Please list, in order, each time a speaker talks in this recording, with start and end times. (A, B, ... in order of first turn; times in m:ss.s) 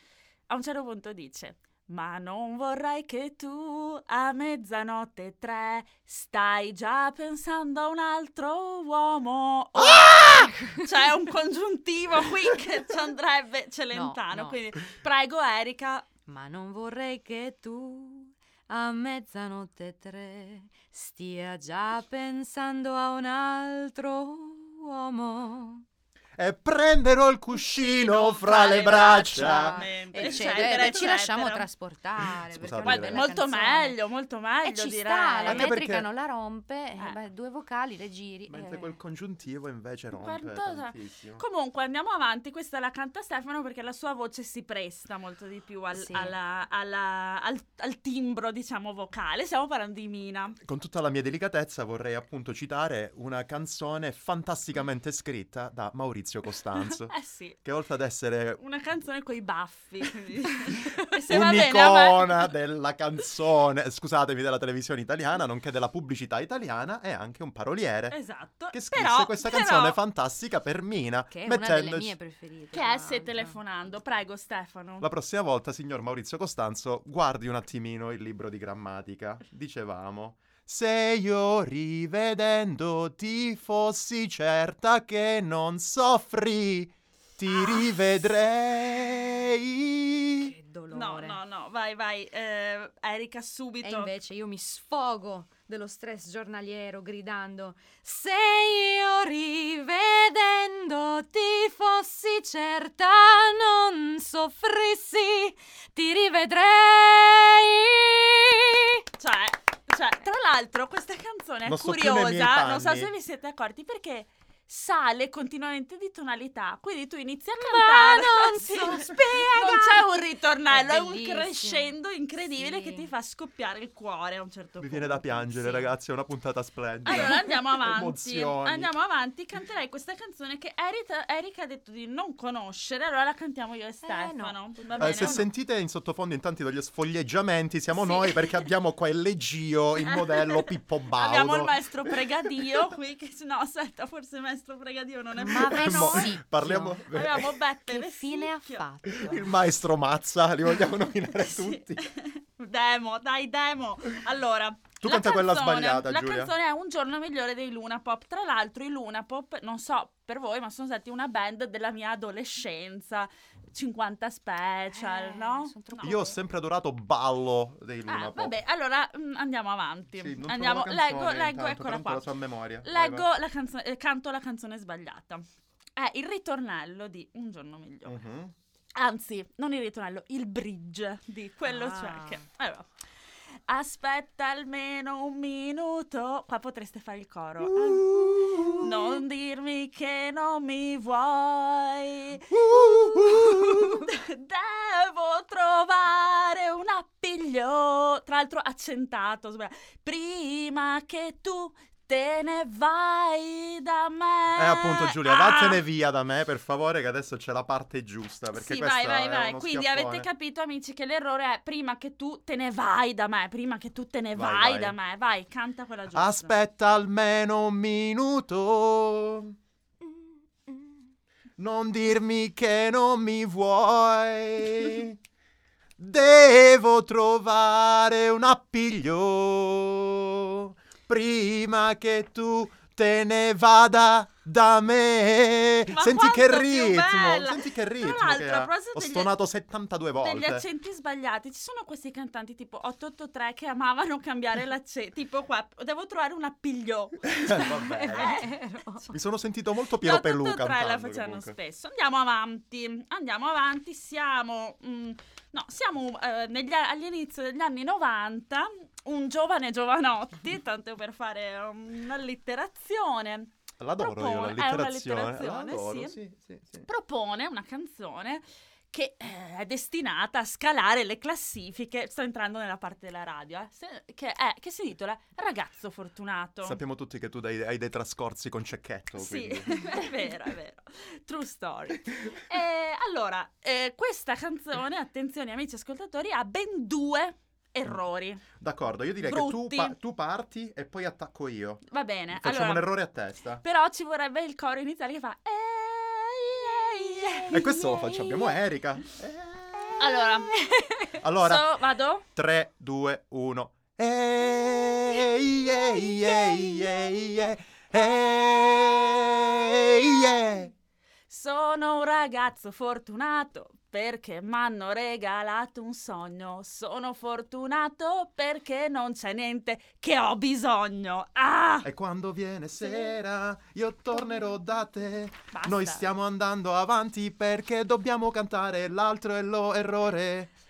0:00.5-0:16.0 A
0:09.8-0:10.9 B
0:13.9-0:14.6 B
0:16.3-0:25.8 B
0:26.4-0:29.9 C
0:27.6-0:31.7 A
0:29.0-0:34.0 B
0:32.5-0:33.3 C
0:32.8-0:35.7 A
0:34.6-0:38.9 B
0:35.4-0:36.1 C
0:38.5-0:41.4 C
0:40.1-0:50.6 A
0:45.9-0:46.4 B
0:50.6-0:58.6 C
0:56.8-0:57.6 A
0:58.6-1:02.5 A
1:01.3-1:08.2 C
1:08.1-1:10.0 A
1:08.7-1:12.2 C
1:11.3-1:13.6 B
1:12.7-1:15.1 A
1:15.0-1:30.5 C
1:30.4-1:31.4 B
1:30.9-1:34.1 A
1:33.8-1:49.0 B
1:49.2-2:05.8 A
1:51.6-1:53.1 C
1:57.6-2:00.1 B
2:00.7-2:03.1 B
2:04.8-2:08.9 C
2:07.0-2:15.5 A
2:14.0-2:15.5 B
2:15.0-2:21.8 C
2:17.9-2:18.7 A
2:20.0-2:26.4 A
2:25.4-2:27.1 B
2:25.5-2:27.5 C
2:27.1-2:28.8 A
2:27.8-2:29.5 B
2:29.0-2:32.0 C
2:31.3-2:46.3 A
2:35.0-2:36.5 C
2:44.9-2:46.4 B
2:46.0-2:48.6 C
2:48.1-2:52.3 A
2:50.1-2:53.3 C
2:52.8-2:55.4 A
2:56.0-2:58.2 A
2:58.0-2:58.5 C
2:58.9-3:02.9 A
3:01.6-3:02.4 B
3:03.7-3:25.8 A
3:07.6-3:09.2 C
3:12.5-3:14.0 C
3:24.5-3:30.3 C
3:28.5-3:36.6 A
3:34.3-3:35.0 C
3:36.1-3:39.5 C
3:41.6-3:45.2 C
3:46.0-4:00.6 C
3:55.9-3:59.4 A
4:00.2-4:08.5 A
4:07.3-4:08.4 C
4:07.5-4:09.1 B
4:09.1-4:11.6 C
4:10.0-4:26.2 A
4:23.8-4:26.9 C
4:26.9-4:36.8 A
4:36.6-4:40.1 C
4:39.2-4:48.4 A
4:48.6-4:51.8 C
4:49.2-4:50.0 A
4:51.9-4:52.9 A
4:52.3-4:53.6 C
4:53.6-4:57.6 A
4:57.3-4:58.6 B
4:57.5-4:59.9 C
4:59.7-5:01.2 B
5:00.0-5:02.2 A
5:01.2-5:01.8 C
5:02.3-5:10.7 C
5:06.0-5:07.1 B
5:11.3-5:21.9 A
5:21.8-5:30.5 C
5:25.5-5:26.1 A